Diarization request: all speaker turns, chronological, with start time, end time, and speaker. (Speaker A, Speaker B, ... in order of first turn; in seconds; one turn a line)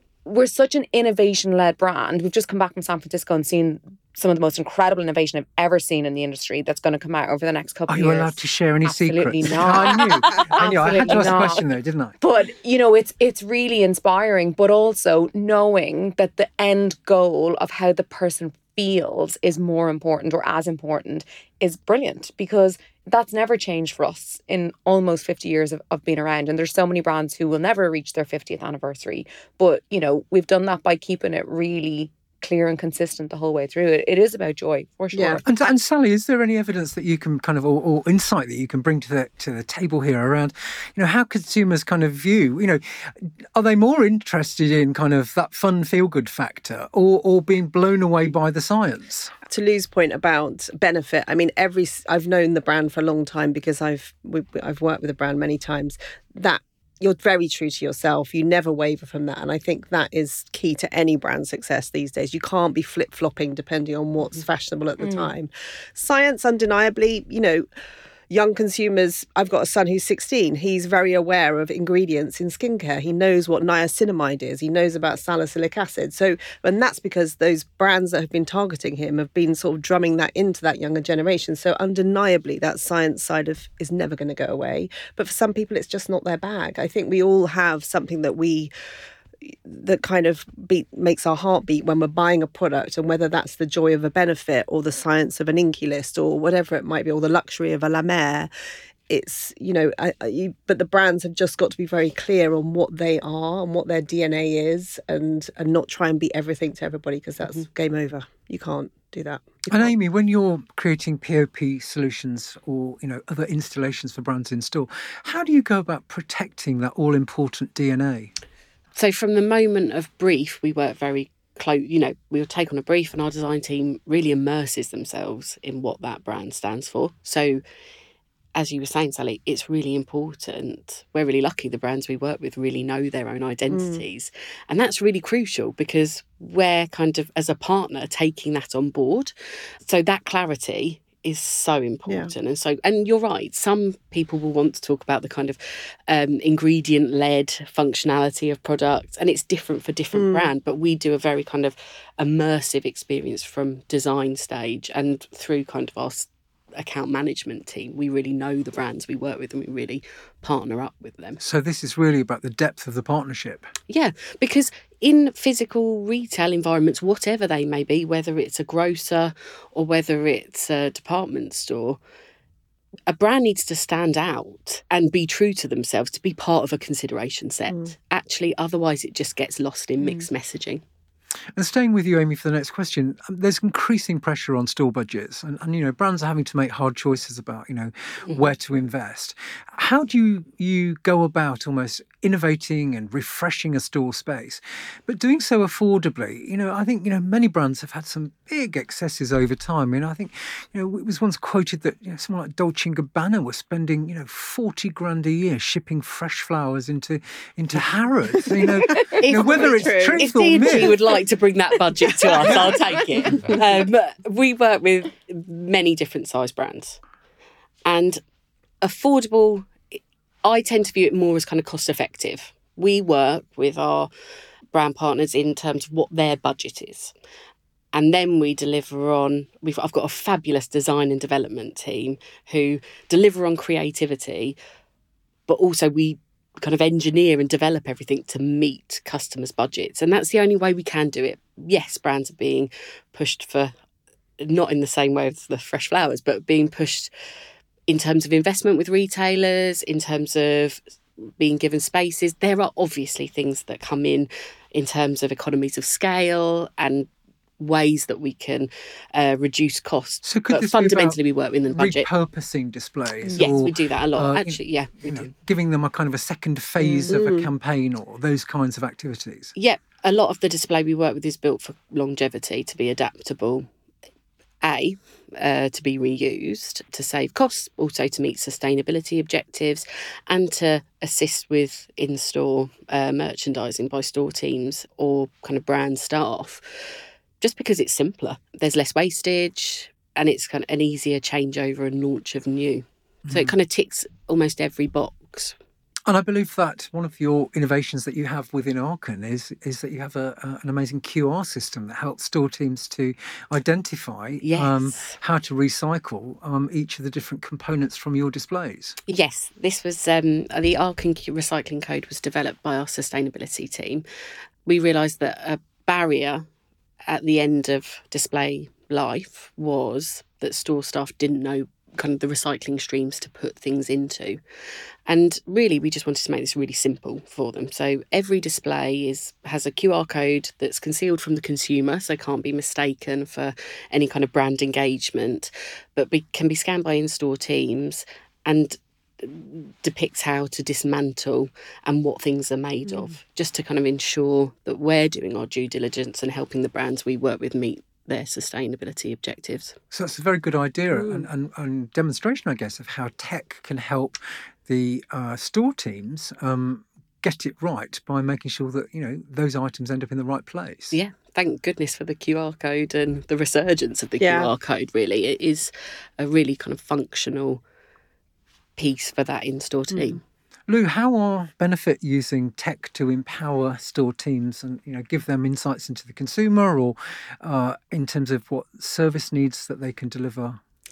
Speaker A: 0.2-11.7
Speaker B: 7.9-12.2
Speaker A: 12.2-35.7
Speaker C: 35.1-35.4
Speaker B: 35.5-49.3
Speaker C: 49.5-67.7
Speaker A: 65.0-65.3
Speaker C: 68.3-88.7
Speaker C: 89.5-98.5
Speaker C: 99.1-109.9
Speaker B: 109.7-118.3
Speaker D: 119.0-127.6
Speaker D: 128.6-139.3
Speaker C: 133.7-134.0
Speaker D: 139.8-161.4
Speaker C: 150.1-150.5
Speaker B: 161.4-163.7
Speaker D: 163.9-172.0
Speaker D: 173.1-180.8
Speaker B: 181.6-210.9
Speaker C: 208.4-211.1
Speaker D: 209.3-217.0
Speaker C: 212.0-212.8
Speaker D: 217.9-218.2
Speaker D: 218.8-224.1
Speaker D: 224.7-227.1
Speaker D: 227.9-234.6
Speaker D: 235.5-243.7
Speaker D: 244.4-247.1
Speaker D: 247.9-250.8
Speaker D: 251.4-262.1
Speaker B: 260.2-261.2
Speaker B: 261.7-269.5
Speaker D: 263.4-265.3
Speaker C: 266.8-267.5
Speaker D: 269.6-273.7
Speaker D: 274.6-295.6
Speaker B: 293.3-293.6
Speaker B: 296.1-309.0
Speaker D: 304.4-305.2
Speaker D: 309.1-314.1
Speaker D: 314.7-316.4
Speaker D: 317.1-324.4
Speaker D: 325.1-349.8
Speaker B: 349.9-361.0
Speaker C: 351.0-351.2
Speaker D: 360.9-367.6
Speaker C: 364.2-364.5
Speaker D: 368.8-370.2
Speaker C: 369.9-370.2
Speaker B: 370.7-380.6